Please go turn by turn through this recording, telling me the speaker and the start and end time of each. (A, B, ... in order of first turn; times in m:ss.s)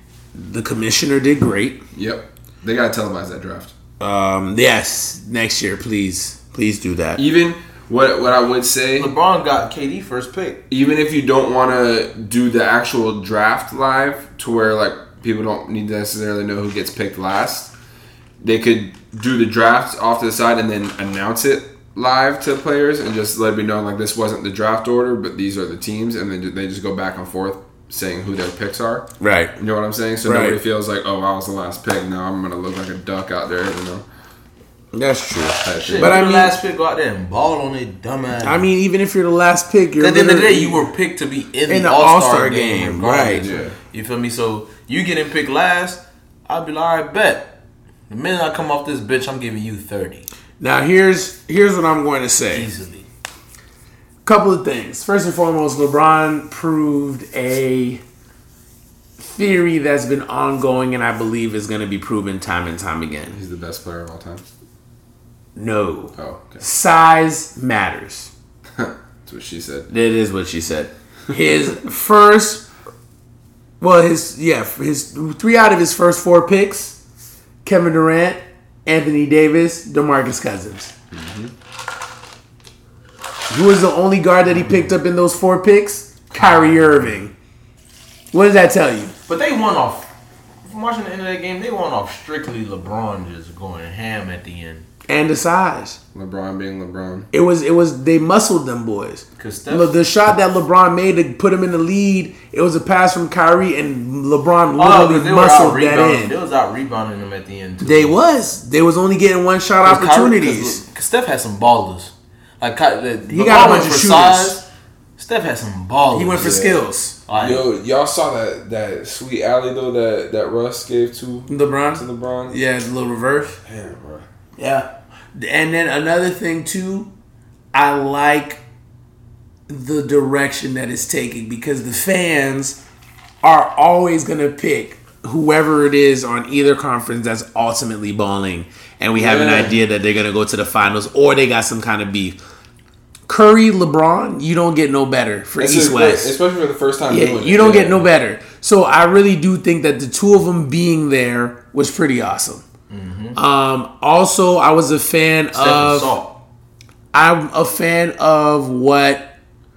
0:00.3-0:01.8 A
0:01.9-0:03.7 B
0:04.0-0:07.2 A
0:07.2-0:09.1 B
0:09.0-0:10.6 C
0:10.7-0:17.7 B
0:18.4-0:34.0 B
0:29.2-0:29.6 A
0:30.2-0:30.6 A
0:34.9-0:36.6 A
0:35.6-0:36.2 B
0:35.8-0:38.7 C
0:38.4-0:40.9 A
0:40.0-0:47.5 C
0:41.7-0:43.4 A
0:43.4-0:43.8 B
0:48.1-0:50.3 C
0:50.6-0:52.7 A
0:52.5-0:53.1 C
0:54.2-0:58.0 A
0:59.2-1:03.4 A
1:03.3-1:04.4 B
1:05.6-1:08.3 A
1:06.2-1:06.6 B
1:08.7-1:09.9 B
1:09.9-1:12.7 A
1:13.8-1:17.0 A
1:17.6-1:20.9 A
1:21.1-1:21.5 B
1:23.5-1:27.3 A
1:26.4-1:26.8 C
1:28.3-1:29.1 A
1:29.3-1:30.1 C
1:30.6-1:34.8 C
1:35.1-1:36.0 A
1:36.1-1:37.3 B
1:37.3-1:46.3 A
1:39.4-1:39.9 C
1:44.8-1:48.2 C
1:47.8-1:50.8 A
1:49.8-1:54.6 C
1:53.3-1:54.6 A
1:55.2-1:56.6 C
1:56.1-1:57.2 A
1:56.4-1:56.8 B
1:57.3-1:57.7 C
1:57.4-2:02.6 B
2:01.5-2:03.6 A
2:03.6-2:04.2 B
2:04.6-2:07.1 A
2:07.7-2:08.6 A
2:09.7-2:12.8 A
2:13.4-2:22.4 A
2:19.2-2:19.7 B
2:23.3-2:26.4 A
2:25.6-2:28.0 B
2:27.1-2:32.6 A
2:32.9-2:33.4 C
2:33.4-2:36.1 A
2:35.5-2:36.4 C
2:37.1-2:39.3 A